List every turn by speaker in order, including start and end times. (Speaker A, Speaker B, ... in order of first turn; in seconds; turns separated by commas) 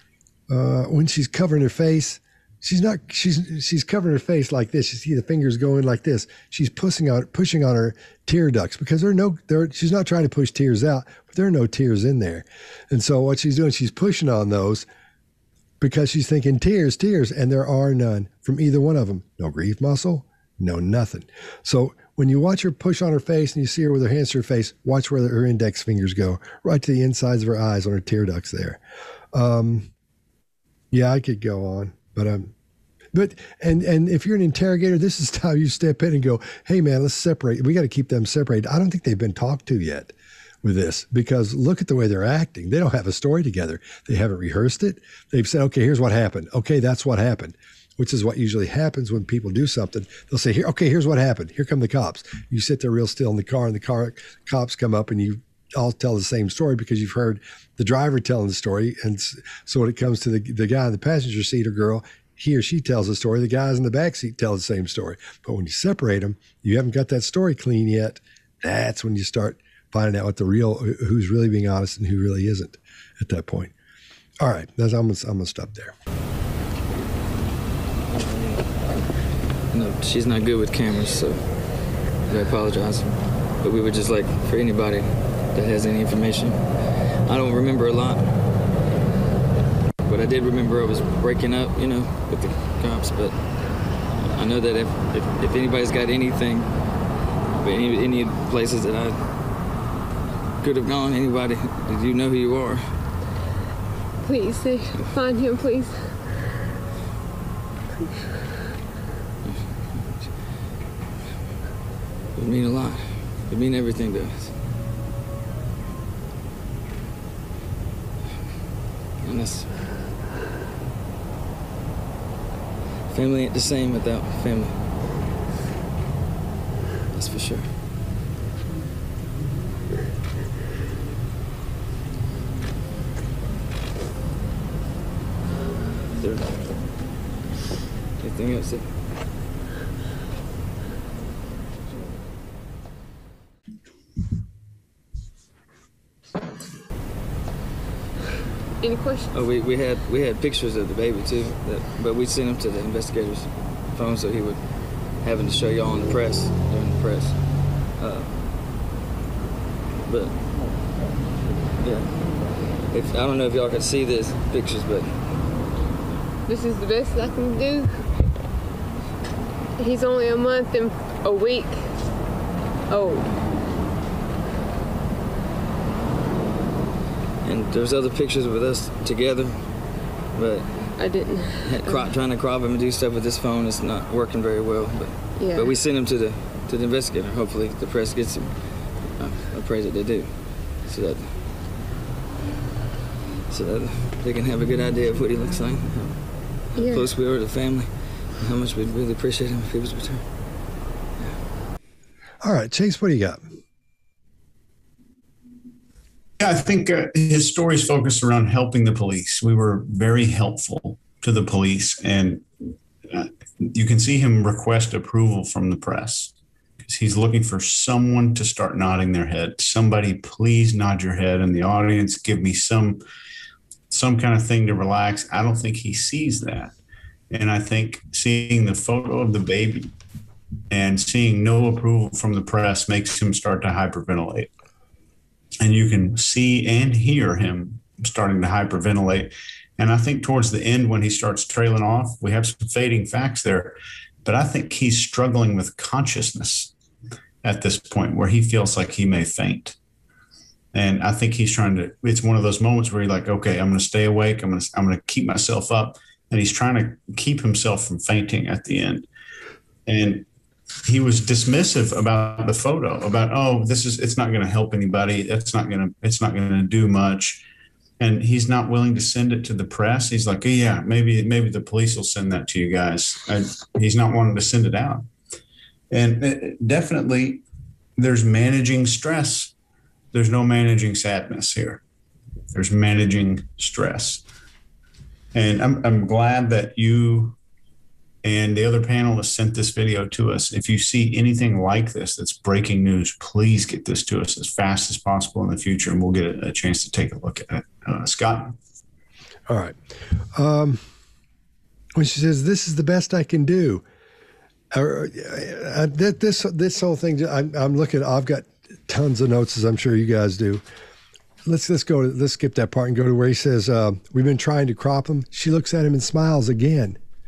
Speaker A: 0.5-14.9, Speaker A: 15.8-28.8, Speaker A: 29.3-29.9, Speaker A: 30.9-32.5, Speaker A: 33.1-73.7, Speaker A: 74.4-75.9, Speaker B: 78.0-78.9, Speaker B: 79.7-86.7, Speaker B: 87.3-88.5, Speaker B: 90.0-96.9, Speaker B: 97.6-99.2, Speaker B: 100.6-103.0, Speaker C: 104.2-106.2, Speaker B: 109.5-110.3, Speaker B: 112.3-114.6, Speaker B: 119.2-119.8, Speaker B: 123.1-125.0, Speaker B: 127.1-127.8, Speaker B: 136.2-136.7, Speaker B: 138.2-138.9, Speaker C: 148.8-149.4, Speaker B: 149.3-158.4, Speaker B: 160.1-160.4, Speaker B: 161.8-162.2, Speaker B: 162.8-165.4, Speaker C: 166.5-167.9, Speaker C: 169.8-171.8, Speaker C: 172.9-173.3, Speaker B: 177.4-180.9, Speaker C: 181.0-182.1, Speaker B: 181.7-191.4, Speaker C: 185.3-185.8, Speaker B: 193.5-200.3, Speaker C: 196.7-197.2, Speaker A: 202.4-203.4, Speaker D: 206.4-216.3, Speaker D: 216.8-223.0, Speaker D: 223.9-226.8, Speaker D: 227.3-229.9, Speaker D: 230.7-234.5, Speaker D: 235.6-246.7, Speaker D: 247.4-249.8, Speaker D: 250.7-259.1, Speaker D: 259.9-260.3, Speaker D: 260.9-267.4, Speaker D: 268.0-275.1, Speaker D: 275.9-277.4, Speaker D: 278.0-279.5, Speaker D: 280.1-281.8, Speaker D: 282.5-284.2, Speaker D: 285.3-287.4, Speaker D: 288.2-298.6, Speaker A: 299.5-299.8, Speaker A: 300.3-300.8, Speaker A: 301.9-303.8, Speaker A: 304.7-310.6, Speaker A: 311.4-317.0